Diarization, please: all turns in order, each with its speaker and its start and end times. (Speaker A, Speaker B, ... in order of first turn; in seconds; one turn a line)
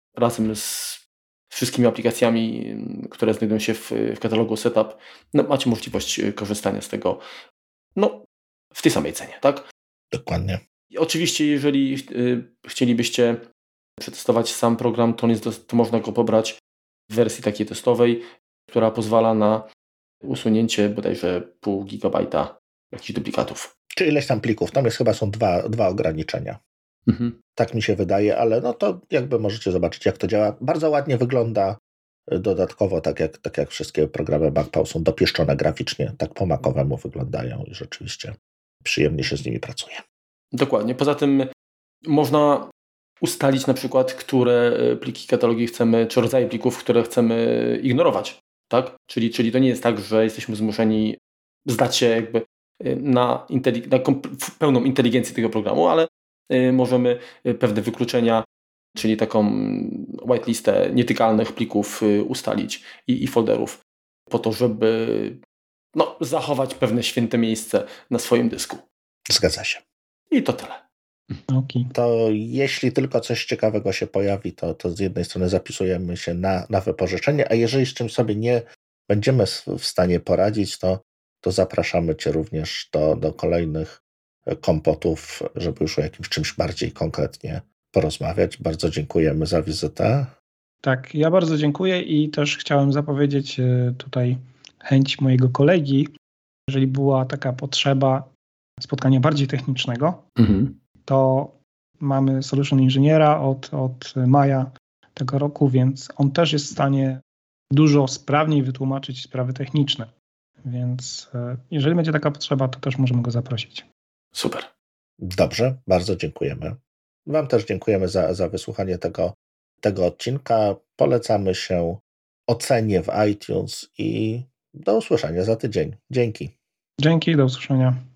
Speaker A: 0.2-7.2
Speaker A: 8.0-8.2
Speaker A: 8.7-9.7
Speaker B: 10.1-10.6
Speaker A: 10.9-13.4
Speaker A: 14.0-16.6
Speaker A: 17.1-19.6
Speaker A: 20.2-23.7
Speaker B: 23.9-26.6
Speaker A: 27.1-27.3
Speaker B: 27.6-31.8
Speaker B: 32.3-40.0
Speaker A: 40.5-41.5
Speaker A: 42.1-42.7
Speaker A: 43.2-65.4
Speaker A: 65.9-68.8
Speaker B: 69.3-69.8
Speaker A: 70.3-71.4
Speaker C: 71.5-71.9
Speaker B: 71.9-90.3
Speaker C: 90.8-96.1
Speaker C: 96.7-98.3
Speaker C: 98.8-100.2
Speaker A: 100.4-100.8
Speaker C: 101.0-107.2
Speaker C: 107.7-110.1
Speaker C: 110.6-113.8
Speaker A: 114.3-114.7
Speaker B: 115.2-126.5
Speaker C: 127.0-128.0